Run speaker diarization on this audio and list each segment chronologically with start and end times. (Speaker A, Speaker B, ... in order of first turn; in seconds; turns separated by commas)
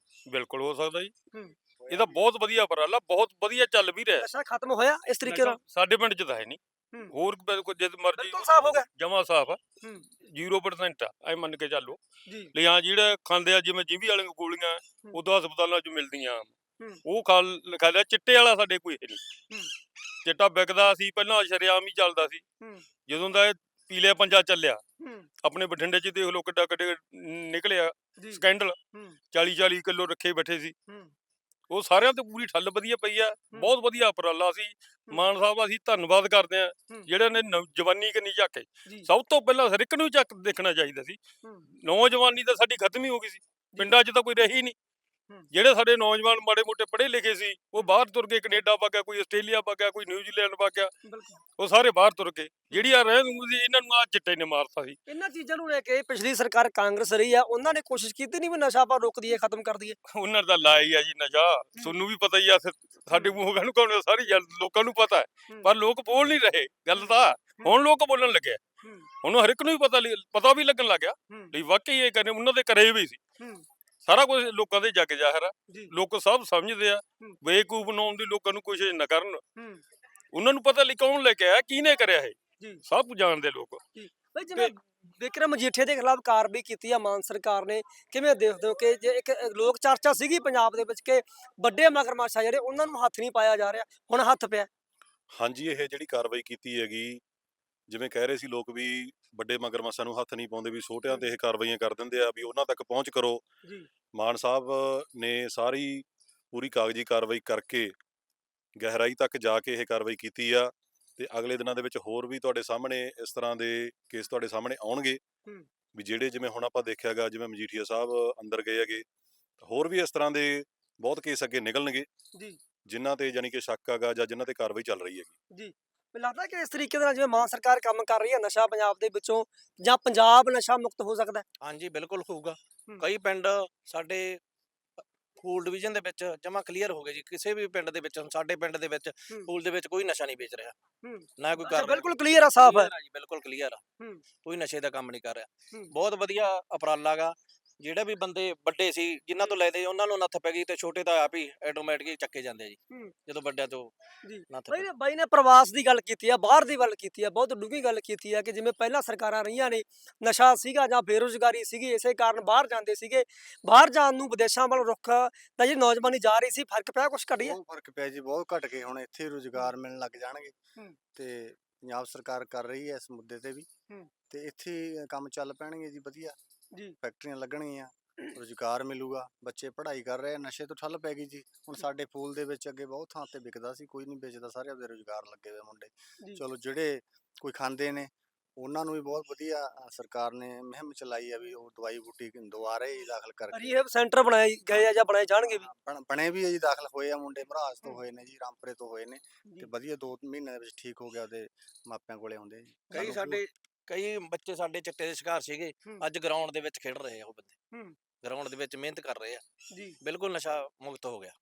Speaker A: 0.3-1.1, Speaker B: 1.8-2.2, Speaker A: 1.9-4.3, Speaker C: 4.2-5.6, Speaker A: 5.2-6.6, Speaker A: 7.1-9.6, Speaker C: 8.2-8.9, Speaker A: 10.2-12.0, Speaker C: 12.3-12.5, Speaker A: 12.5-16.5, Speaker A: 17.1-19.2, Speaker A: 20.2-22.4, Speaker A: 23.1-24.8, Speaker C: 25.0-25.3, Speaker A: 25.4-28.8, Speaker A: 29.3-30.8, Speaker C: 30.9-31.1, Speaker A: 31.7-41.2, Speaker A: 41.8-44.8, Speaker A: 45.5-50.9, Speaker C: 51.0-51.4, Speaker A: 51.6-55.0, Speaker C: 55.1-60.0, Speaker A: 60.1-68.6, Speaker C: 67.0-67.8, Speaker A: 69.2-73.2, Speaker C: 73.4-73.7, Speaker A: 74.0-79.4, Speaker C: 79.6-79.8, Speaker A: 80.3-83.8, Speaker C: 84.0-94.7, Speaker D: 95.3-97.2, Speaker D: 97.9-103.4, Speaker D: 104.1-107.9, Speaker D: 108.8-115.2, Speaker D: 115.9-119.1, Speaker D: 119.6-122.1, Speaker D: 122.9-125.3, Speaker C: 125.5-131.4, Speaker E: 131.6-134.4, Speaker E: 135.0-140.8, Speaker C: 141.0-142.9, Speaker E: 141.4-143.8, Speaker E: 144.4-153.9, Speaker C: 154.2-167.6, Speaker E: 154.5-154.9, Speaker B: 167.4-170.5, Speaker B: 171.2-173.7, Speaker B: 174.3-176.4, Speaker B: 177.0-193.8, Speaker C: 193.5-195.7, Speaker B: 194.7-203.4, Speaker C: 202.9-203.2, Speaker E: 202.9-207.5, Speaker E: 208.2-209.4, Speaker C: 209.7-210.0, Speaker E: 210.0-211.3